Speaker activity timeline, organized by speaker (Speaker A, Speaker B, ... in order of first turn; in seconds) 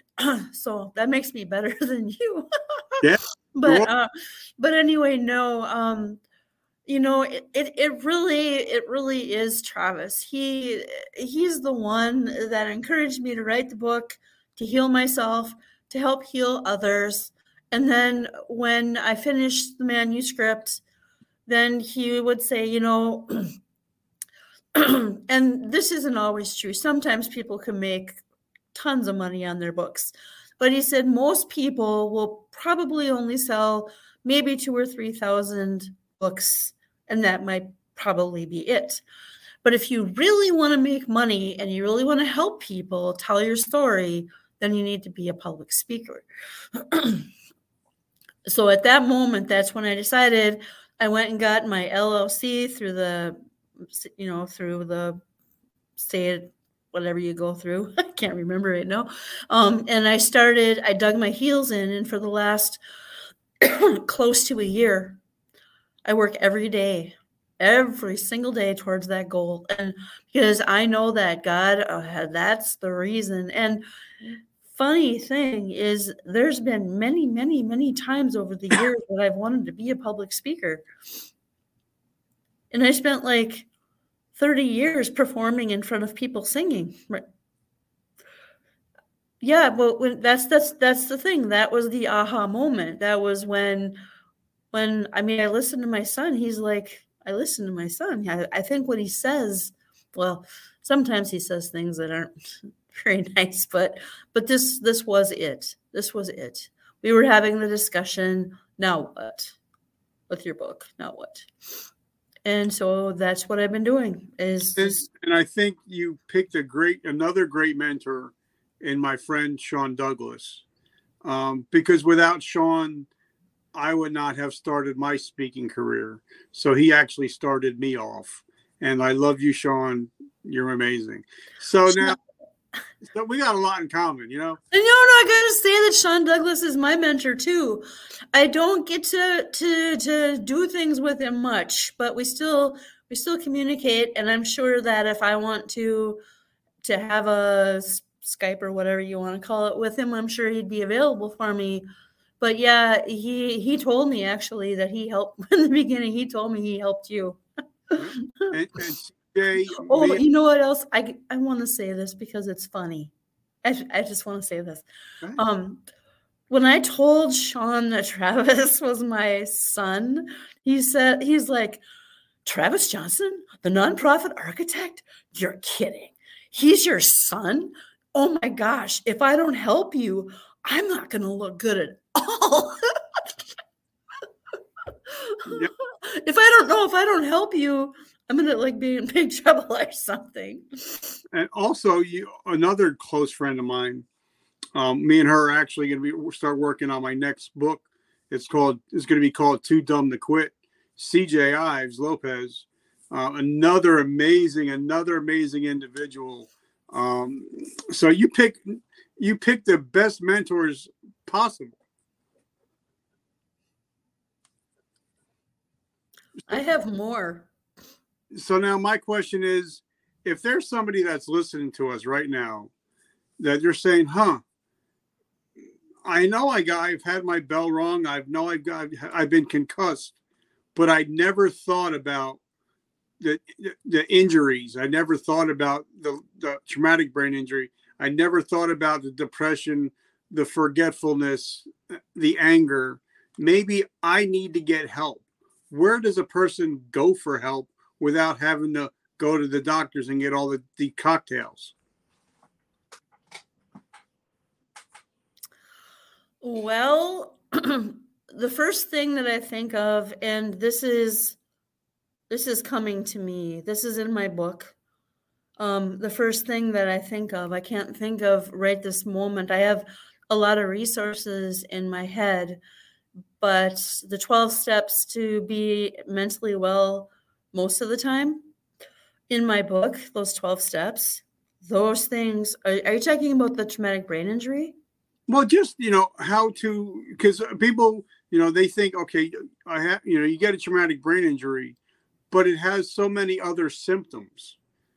Speaker A: 0.2-3.0, 3.5-6.2, 6.9-20.8, 21.5-23.5, 24.7-28.2, 28.7-39.0, 39.6-46.2, 46.8-47.3, 48.5-53.4, 53.9-55.2, 56.0-62.8, 63.6-65.2, 66.0-80.8, 82.7-83.7, 84.3-87.2, 89.4-94.0, 94.7-109.6, 110.3-111.5, 112.4-115.0, 134.7-146.2, 146.8-151.8, 152.4-157.4, 157.9-158.5, 159.7-163.1, 163.6-165.8, 166.5-171.8, 172.4-183.2, 185.1-191.2, 216.5-217.5, 256.4-261.4, 262.3-264.7, 265.6-272.6, 273.4-278.4, 279.3-284.7
Speaker B: 3.0-3.9, 114.8-120.6, 121.2-123.1, 123.7-132.2, 133.1-134.6, 158.0-160.2, 191.3-194.0, 194.7-211.8, 218.3-222.7, 223.4-224.4, 226.0-230.1, 230.7-232.4, 233.2-251.7, 285.3-291.8, 292.3-294.6